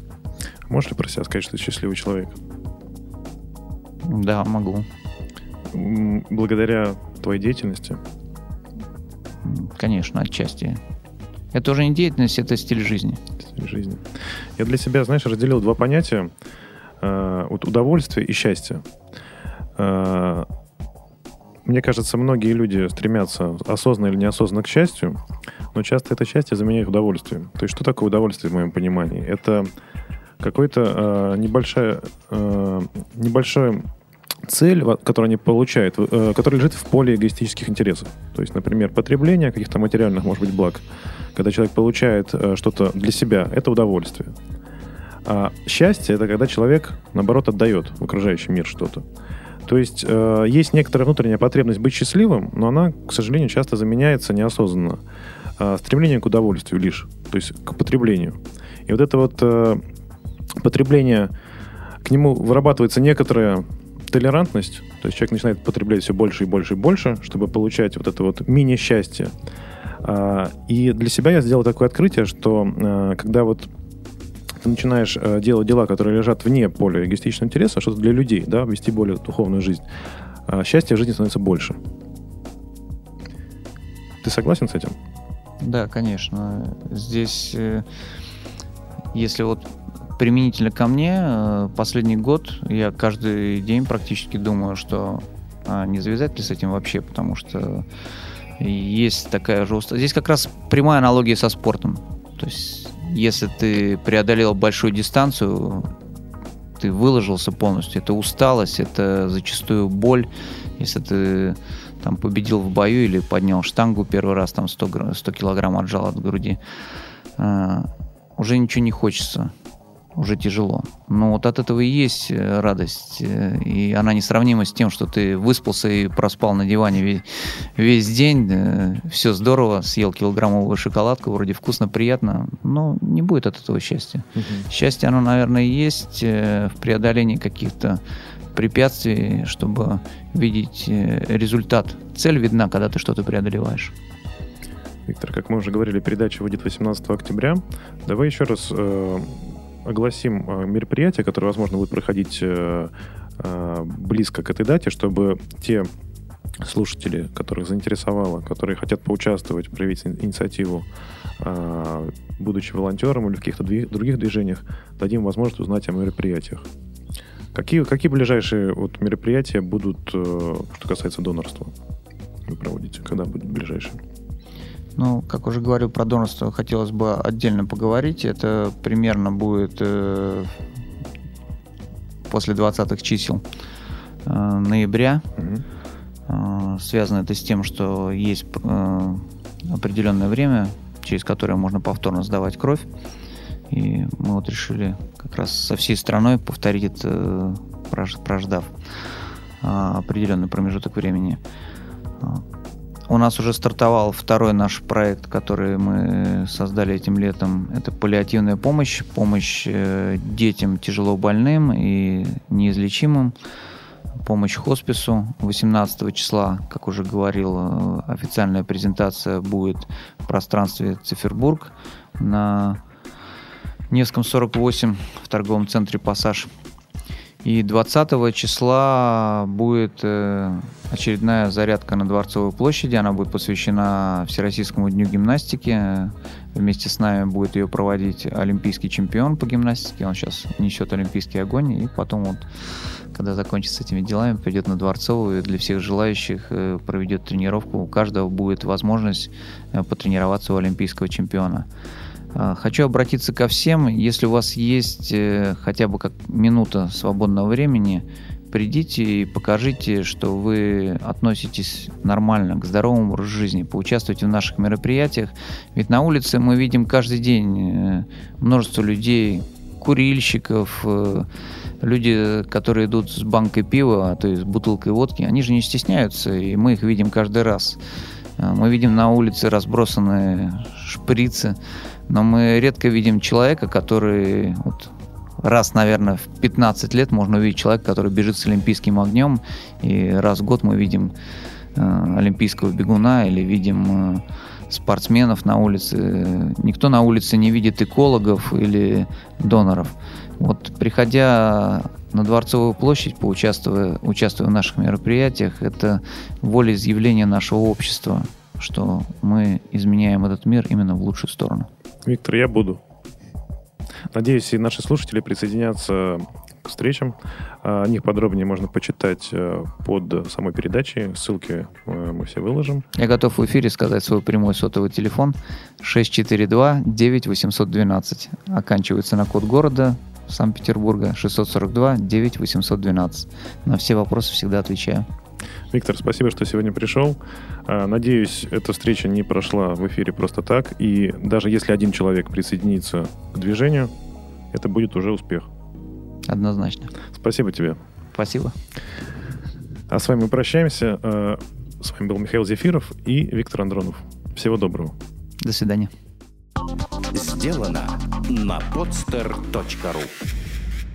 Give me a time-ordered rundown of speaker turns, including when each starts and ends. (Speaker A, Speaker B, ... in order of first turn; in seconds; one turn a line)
Speaker A: 0.7-2.4
Speaker B: 4.0-4.9
Speaker A: 5.7-8.0
Speaker B: 9.4-10.8
Speaker B: 11.5-13.2
Speaker A: 13.4-16.3
Speaker A: 17.0-18.8
Speaker A: 19.8-20.5
Speaker A: 21.6-25.2
Speaker A: 25.7-29.7
Speaker A: 30.4-33.9
Speaker A: 34.4-40.8
Speaker A: 41.3-44.4
Speaker A: 45.2-49.0
Speaker A: 49.7-55.0
Speaker A: 55.6-59.8
Speaker A: 60.6-61.3
Speaker A: 62.0-69.3
Speaker A: 70.0-73.7
Speaker A: 74.6-79.8
Speaker A: 80.5-81.8
Speaker A: 84.2-85.0
Speaker B: 85.6-87.8
Speaker B: 89.1-89.7
Speaker B: 90.2-97.8
Speaker B: 98.6-105.9
Speaker B: 106.8-116.6
Speaker B: 117.4-119.5
Speaker B: 120.1-138.0
Speaker A: 134.3-134.6
Speaker B: 138.5-143.9
Speaker A: 145.1-155.9
Speaker A: 156.6-160.9
Speaker A: 161.4-166.6
Speaker A: 167.5-171.7
Speaker A: 172.4-174.0
Speaker B: 175.0-180.5
Speaker B: 182.3-183.4
Speaker B: 184.2-185.2
Speaker A: 185.4-185.6
Speaker B: 186.3-192.9
Speaker B: 193.7-198.7
Speaker B: 199.6-201.4
Speaker B: 203.1-213.3
Speaker B: 214.2-222.8
Speaker B: 223.9-226.5
Speaker B: 227.4-242.4
Speaker B: 243.1-251.7
Speaker B: 252.3-271.3
Speaker B: 271.8-277.8
Speaker B: 278.4-281.6
Speaker B: 282.1-291.1
Speaker B: 291.7-311.7
Speaker A: 312.0-312.8
Speaker A: 314.1-322.9
Speaker B: 322.9-335.1
Speaker A: 335.7-343.9
Speaker A: 344.5-345.5
Speaker B: 346.3-346.9
Speaker A: 347.1-347.8
Speaker B: 348.1-348.5
Speaker A: 349.9-354.9
Speaker B: 355.4-355.9
Speaker C: 357.1-360.1